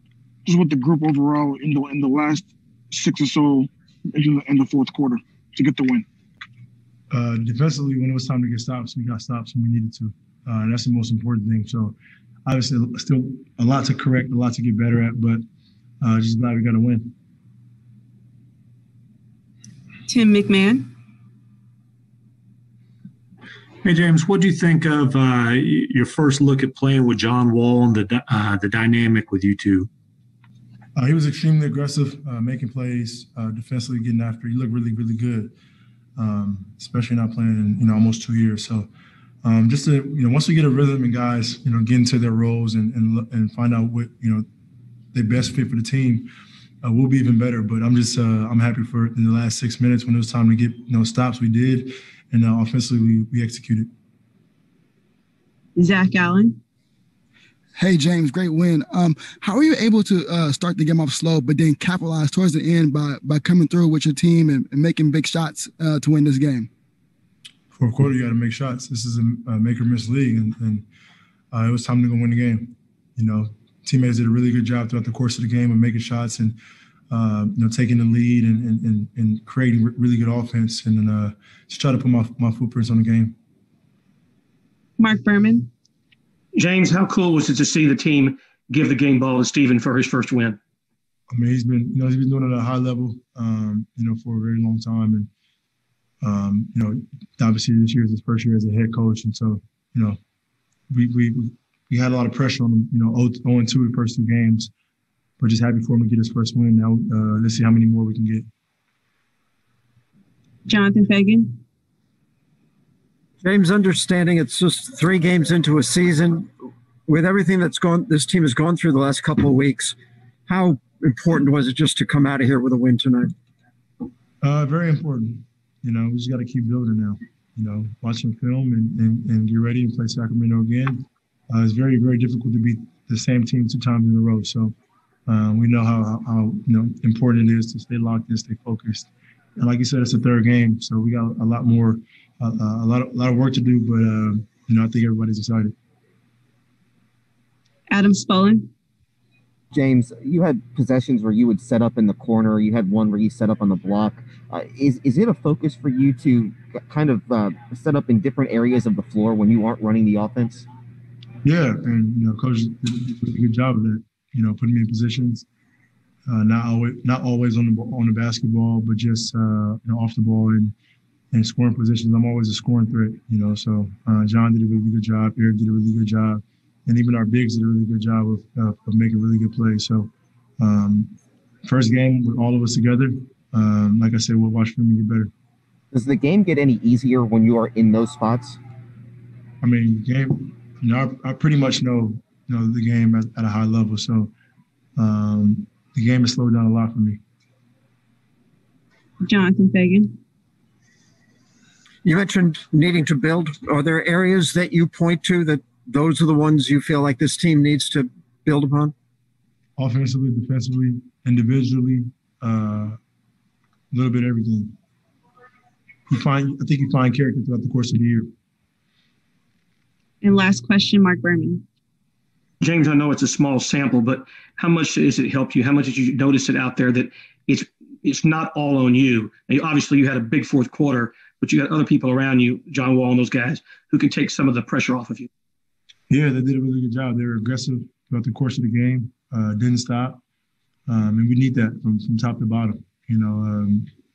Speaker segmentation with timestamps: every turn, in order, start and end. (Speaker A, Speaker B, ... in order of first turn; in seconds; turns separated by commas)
Speaker A: 0.5-6.0, Speaker B: 7.1-15.4, Speaker B: 16.0-17.1, Speaker C: 20.1-20.9, Speaker D: 23.9-29.9, Speaker B: 30.9-35.5, Speaker B: 36.2-38.9, Speaker B: 39.4-44.5, Speaker B: 45.1-46.3, Speaker B: 46.8-53.9, Speaker C: 55.8-56.6, Speaker E: 57.8-66.7, Speaker B: 67.7-70.9, Speaker B: 71.5-76.6, Speaker B: 77.1-83.4, Speaker C: 85.0-85.7, Speaker F: 86.6-90.6, Speaker B: 91.3-95.3, Speaker B: 96.2-100.2, Speaker B: 100.9-104.7, Speaker B: 105.4-108.5, Speaker C: 110.7-111.5, Speaker G: 113.4-116.5, Speaker G: 117.1-120.0, Speaker G: 120.5-123.3, Speaker B: 124.4-134.7, Speaker B: 135.3-145.7, Speaker C: 147.9-148.7, Speaker H: 149.7-160.7, Speaker B: 161.4-165.5, Speaker B: 166.3-170.7, Speaker B: 171.3-181.1, Speaker B: 181.6-185.3, Speaker H: 185.9-188.6, Speaker B: 189.6-194.3, Speaker B: 195.0-197.2, Speaker C: 199.2-200.1, Speaker G: 202.0-208.9, Speaker B: 209.8-213.0, Speaker B: 213.9-214.8, Speaker B: 216.1-218.3, Speaker C: 220.2-221.6, Speaker F: 222.6-235.3, Speaker B: 236.1-240.2, Speaker B: 240.9-243.9